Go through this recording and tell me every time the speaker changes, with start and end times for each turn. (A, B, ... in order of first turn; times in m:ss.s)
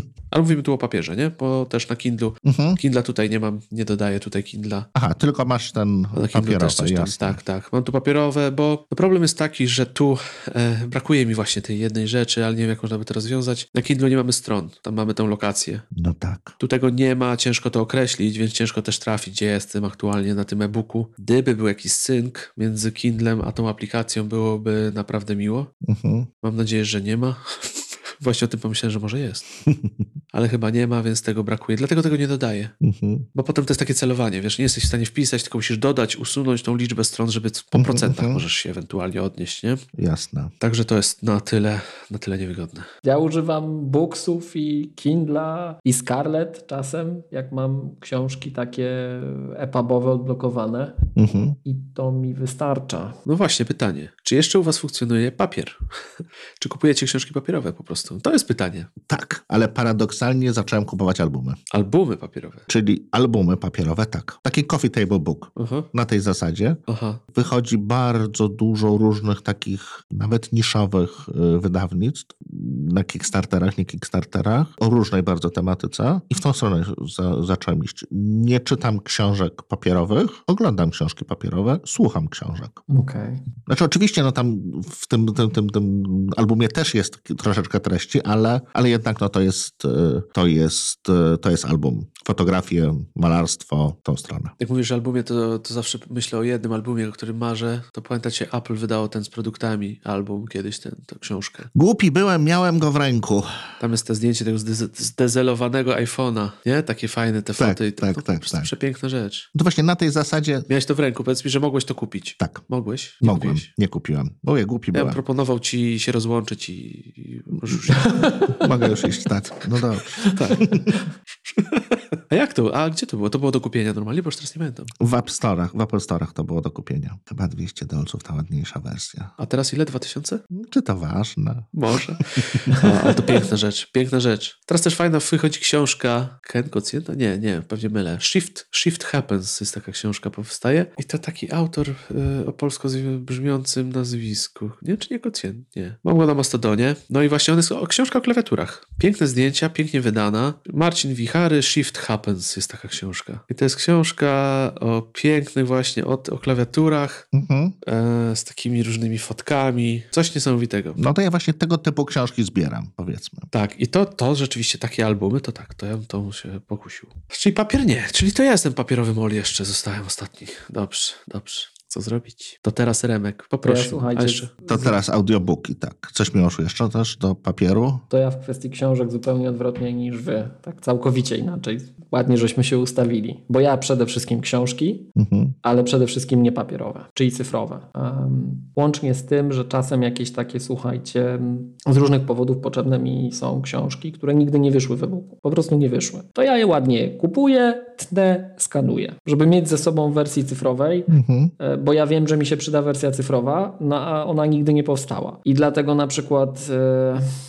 0:00.3-0:04.9 A
0:02.4-0:02.8 B
0:05.0-0:07.4 B
0:06.2-0:15.9 A
0:16.0-0:16.6 B
0:16.6-0:25.7 A
0:25.8-0:26.3 B
0:26.4-0:29.5 A
0:29.7-0:30.0 B
0:30.3-0:32.7 A
0:32.8-0:33.3 B
0:33.4-0:39.8 A
0:37.8-0:38.4 B
0:40.0-0:40.5 B
0:40.6-0:42.9 A
0:43.0-0:51.0 C
0:51.2-0:51.6 B
0:51.6-0:53.2 C
0:53.3-0:55.8 A
0:56.6-0:58.9 A
0:59.1-1:01.6 B
1:01.7-1:02.6 A
1:02.7-1:06.8 B
1:05.6-1:05.9 A
1:06.9-1:07.2 A
1:07.3-1:22.8 B
1:22.9-1:23.4 C
1:23.7-1:34.5 B
1:34.6-1:41.7 A
1:41.7-1:43.5 B
1:43.8-1:49.5 A
1:47.6-1:48.7 B
1:49.6-1:50.7 B
1:50.7-1:53.7 A
1:52.4-1:52.6 B
1:53.2-1:55.2 B
1:54.9-1:58.6 A
1:58.0-1:58.6 C
1:58.6-2:00.9 B
2:00.2-2:00.6 C
2:00.3-2:01.0 A
2:01.5-2:04.9 A
2:05.0-2:09.4 B
2:09.4-2:10.4 A
2:10.5-2:13.0 B
2:11.8-2:37.3 A
2:37.3-2:37.8 B
2:37.8-2:41.0 A
2:41.0-2:43.5 B
2:43.5-2:54.5 A
2:53.6-2:55.0 C
2:54.7-2:58.0 B
2:58.1-3:05.1 C
3:05.2-3:05.6 B
3:05.6-3:27.2 C
3:21.1-3:21.5 B